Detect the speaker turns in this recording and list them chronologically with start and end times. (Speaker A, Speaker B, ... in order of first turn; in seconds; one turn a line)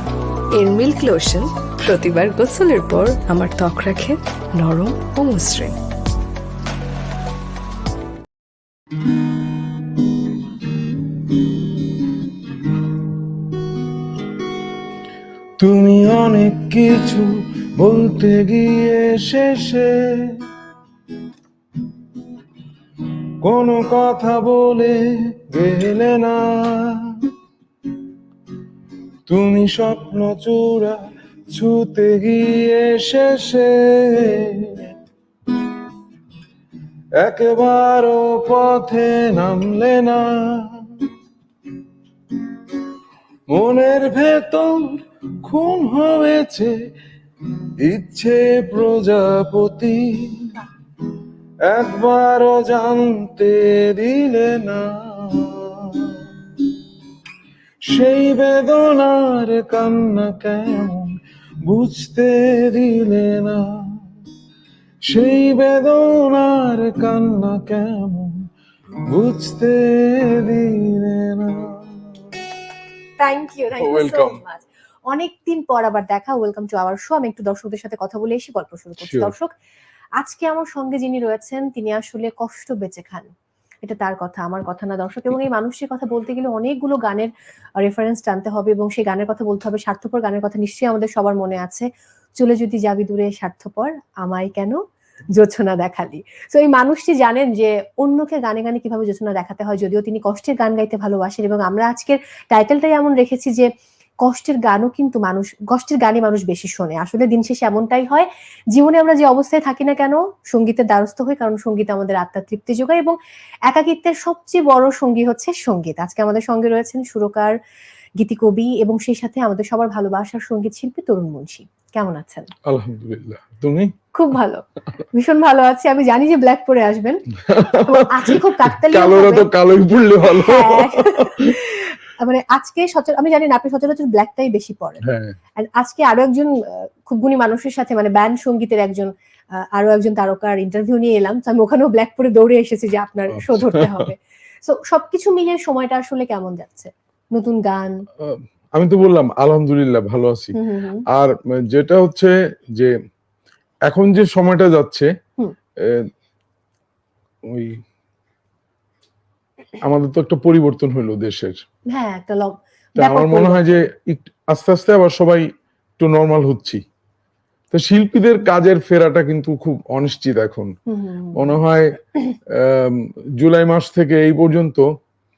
Speaker A: 0.5-5.7
Speaker B: 15.6-20.4
Speaker B: 23.4-27.3
Speaker B: 29.3-34.9
Speaker B: 37.2-41.1
Speaker B: 43.5-46.8
Speaker B: 47.6-50.5
Speaker B: 51.6-56.7
Speaker B: 57.8-64.0
Speaker B: 65.0-68.5
Speaker B: 69.1-72.3
Speaker C: 73.2-79.5
Speaker B: 73.8-74.4
Speaker B: 79.0-79.3
Speaker C: 80.2-83.3
Speaker C: 83.8-91.8
Speaker C: 92.4-94.8
Speaker C: 95.3-103.7
Speaker C: 104.2-113.1
Speaker C: 113.7-117.5
Speaker C: 118.2-122.5
Speaker B: 122.7-123.9
Speaker C: 124.1-129.5
Speaker B: 127.4-131.5
Speaker C: 130.3-135.0
Speaker B: 135.0-135.3
Speaker C: 135.6-148.0
Speaker B: 143.3-144.1
Speaker B: 148.2-150.6
Speaker C: 150.5-151.0
Speaker B: 151.1-152.9
Speaker B: 153.8-155.1
Speaker B: 155.8-156.1
Speaker B: 157.4-157.8
Speaker B: 159.8-161.6
Speaker C: 161.9-163.8
Speaker B: 162.9-166.8
Speaker B: 167.7-170.7
Speaker C: 170.9-171.6
Speaker B: 171.3-174.9